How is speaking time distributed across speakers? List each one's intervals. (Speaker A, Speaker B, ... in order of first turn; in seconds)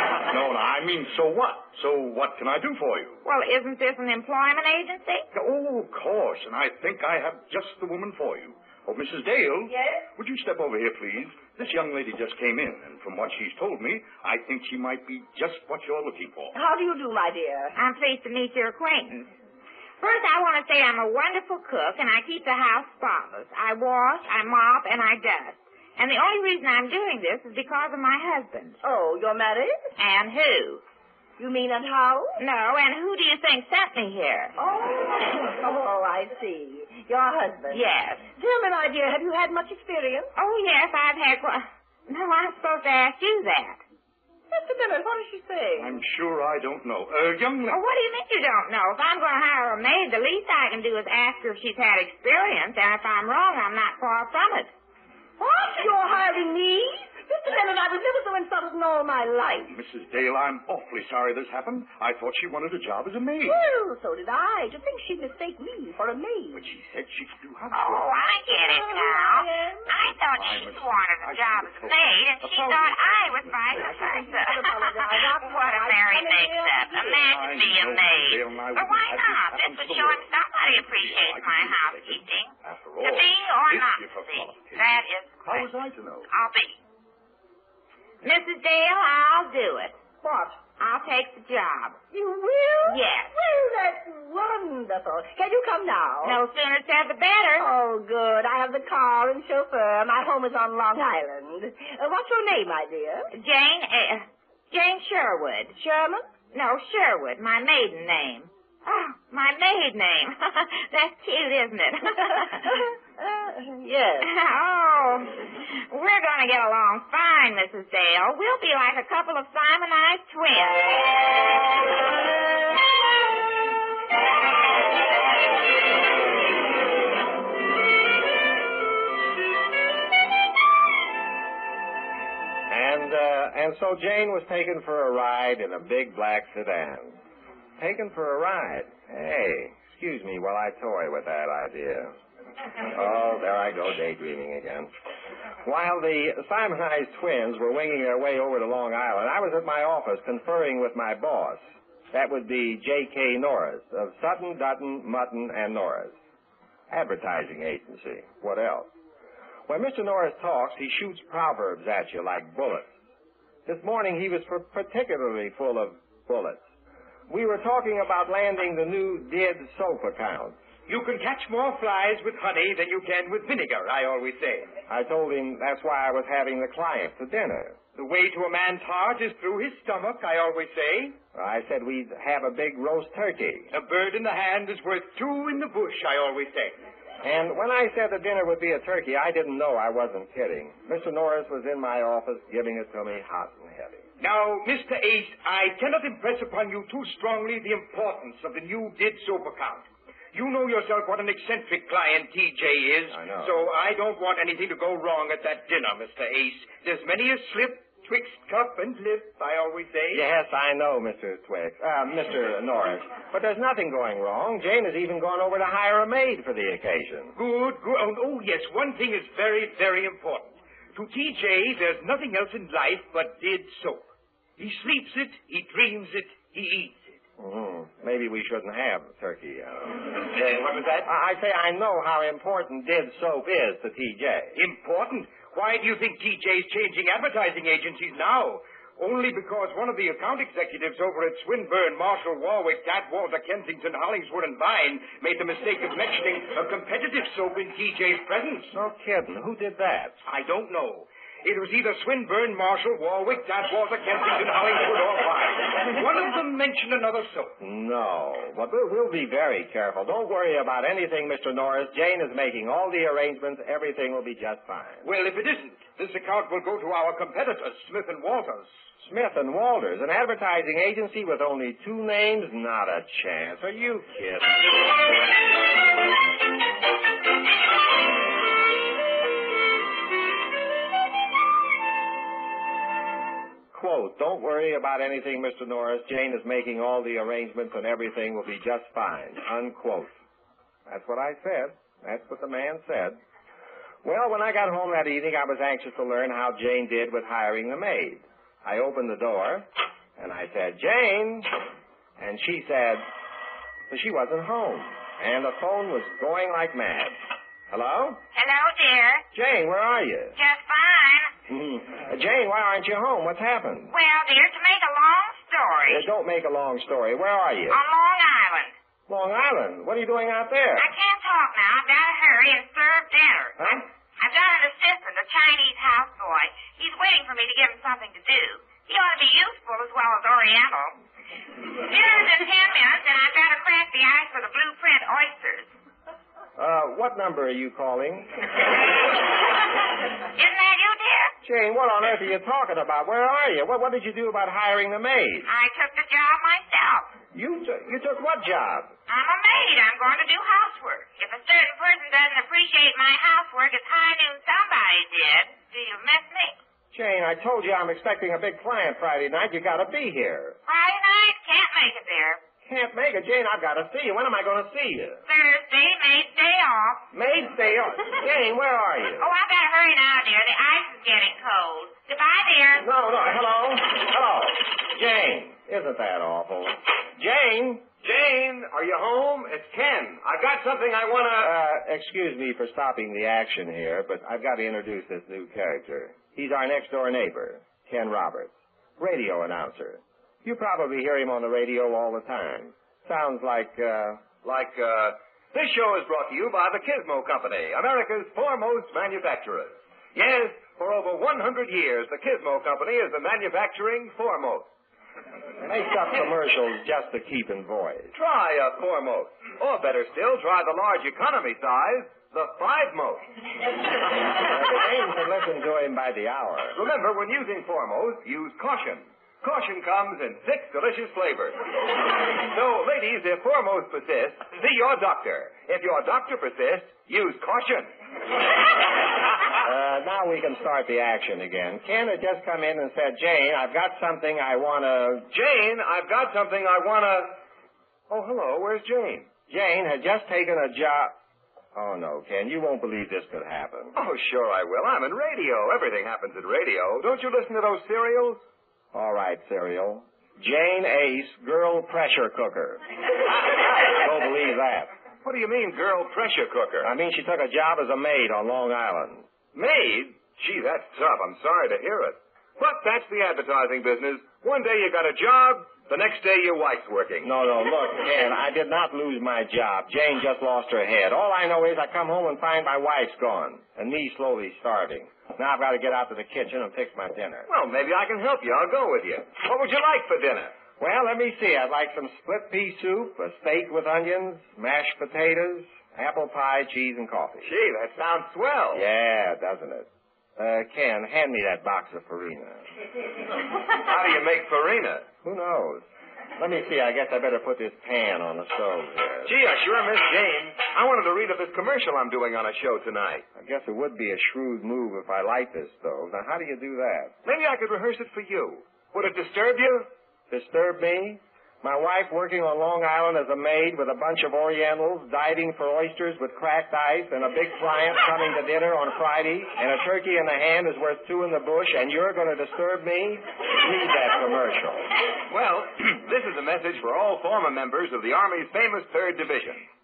Speaker A: 0.2-3.2, 5.3-16.6, 45.8-47.8, 59.7-63.6, 66.5-68.3, 70.1-74.0, 77.1-86.3
Speaker B: 3.2-5.3, 17.8-19.3, 20.0-28.8, 30.0-30.8, 32.4-34.6, 37.7-38.3, 40.4-43.8, 47.7-54.7, 67.7-85.7, 86.3-86.8, 88.2-92.0, 92.8-93.3, 96.2-97.7, 103.3-105.8, 106.5-112.7, 114.2-120.9, 308.3-309.2, 310.4-311.3, 313.9-316.1, 317.7-318.7, 320.8-330.9, 331.7-335.7, 340.4-341.3, 345.5-347.1, 349.1-356.6, 360.7-362.4, 365.3-367.0, 369.2-372.9
Speaker C: 16.5-17.8, 28.8-29.8, 31.4-32.4, 34.6-40.3, 44.5-46.0, 55.4-59.7, 63.4-66.6, 68.5-69.9, 73.8-77.1, 92.1-96.4, 97.6-103.3, 105.8-106.2, 112.3-114.3
Speaker D: 132.7-137.2, 137.8-142.1, 142.9-144.9, 145.6-156.2, 156.9-158.9, 159.7-162.9, 163.7-166.6, 167.3-170.6, 174.9-177.8, 181.3-183.7, 187.2-194.1, 203.1-203.6, 210.1-217.4, 227.4-230.1, 231.0-234.6, 248.7-250.2, 257.6-265.0, 269.0-274.6, 283.7-290.1, 290.9-293.2, 294.0-301.5, 302.2-303.0, 303.9-307.2, 307.7-308.2, 309.3-310.4, 311.5-313.9, 315.9-317.8, 319.1-320.9, 323.6-323.9, 336.6-338.3, 341.4-345.5, 347.3-348.9, 356.9-360.6, 362.6-365.2, 367.1-369.3, 372.8-377.9, 381.4-394.2, 405.6-408.1, 414.3-416.8, 429.5-435.3, 439.5-441.1, 441.8-443.9, 448.9-452.8, 453.8-454.9, 456.8-459.3, 467.2-477.5, 480.8-487.5, 488.7-492.6, 495.2-495.9, 496.4-499.4, 503.4-507.1, 510.3-524.9
Speaker E: 170.9-174.7, 177.9-181.2, 183.7-186.8, 194.2-210.2, 217.4-227.2, 230.2-231.1, 234.6-248.7, 250.3-257.6, 265.0-268.7
Speaker F: 378.0-381.5, 394.4-404.7, 408.1-413.2, 416.8-421.6, 422.4-427.9, 435.3-437.4, 438.1-439.3, 443.9-448.4, 455.2-456.9, 459.5-467.3, 477.5-480.6, 487.4-488.9, 493.8-495.1, 499.3-503.2, 507.2-509.9, 525.3-529.7